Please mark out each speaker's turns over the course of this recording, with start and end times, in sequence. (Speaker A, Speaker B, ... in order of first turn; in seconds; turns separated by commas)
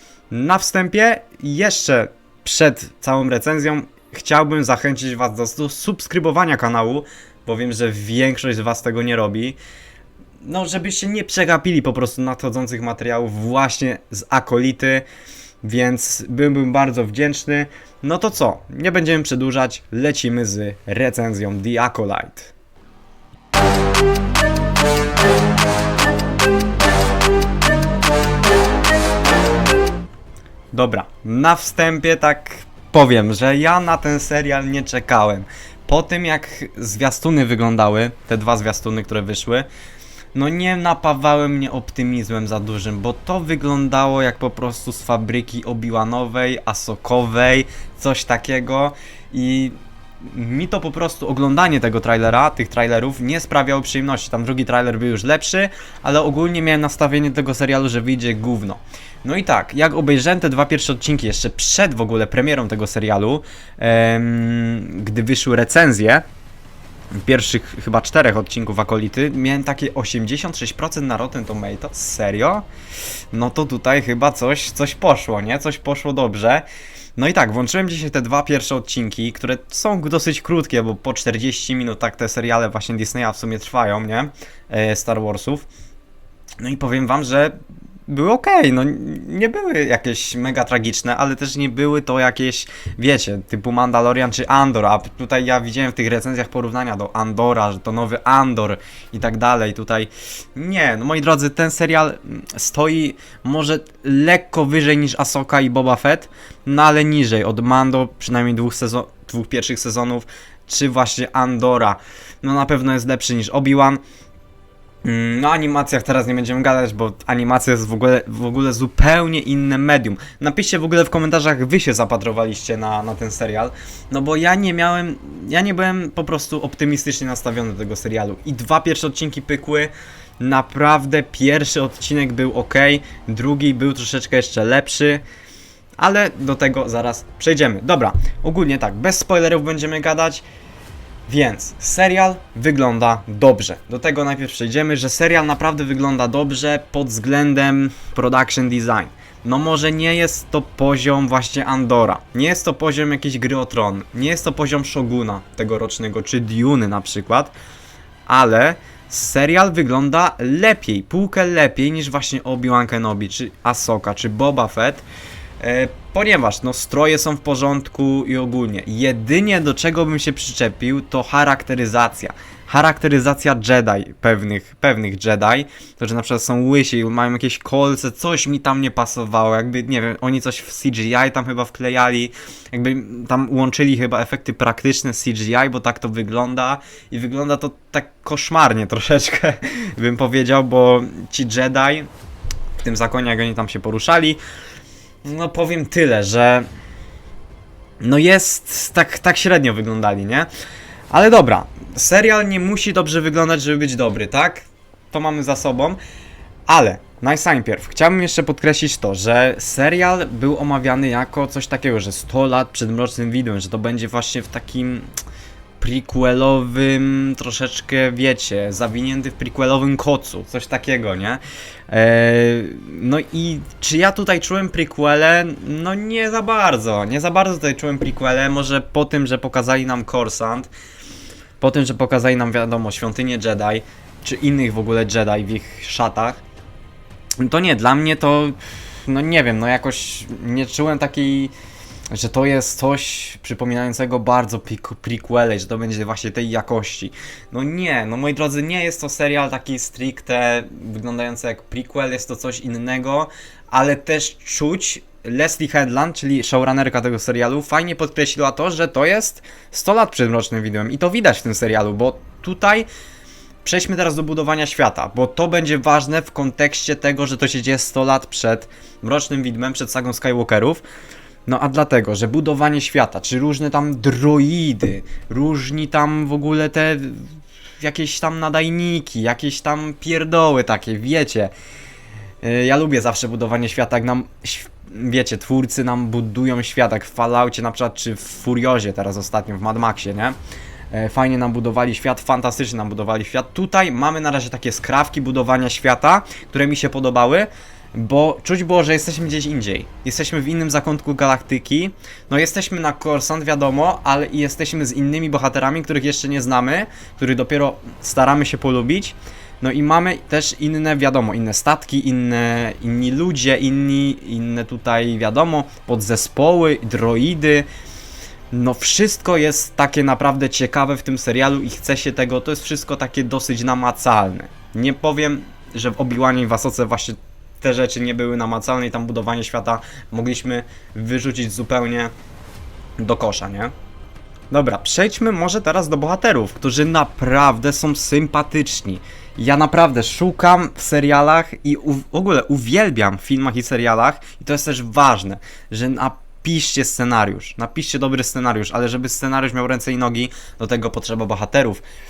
Speaker A: 0.3-9.6, Speaker A: 10.4-15.1, Speaker A: 15.6-22.5, Speaker A: 30.7-39.7, Speaker A: 40.3-66.2, Speaker A: 67.1-72.7, Speaker A: 73.3-76.6, Speaker A: 77.2-85.7, Speaker A: 86.6-87.5, Speaker A: 88.1-114.0, Speaker A: 115.0-135.2, Speaker A: 136.0-140.4, Speaker A: 141.3-157.5, Speaker A: 158.3-165.0, Speaker A: 165.6-192.1, Speaker A: 192.8-194.4, Speaker A: 195.2-196.7, Speaker A: 198.0-200.5, Speaker A: 201.1-206.0, Speaker A: 206.7-215.1, Speaker A: 215.8-230.7, Speaker A: 231.6-236.4, Speaker A: 237.4-241.5, Speaker A: 242.1-262.9, Speaker A: 263.6-270.8, Speaker A: 271.5-277.2, Speaker A: 277.8-281.5, Speaker A: 282.4-290.4, Speaker A: 290.9-317.7, Speaker A: 318.5-332.1, Speaker A: 333.0-333.7, Speaker A: 334.5-351.8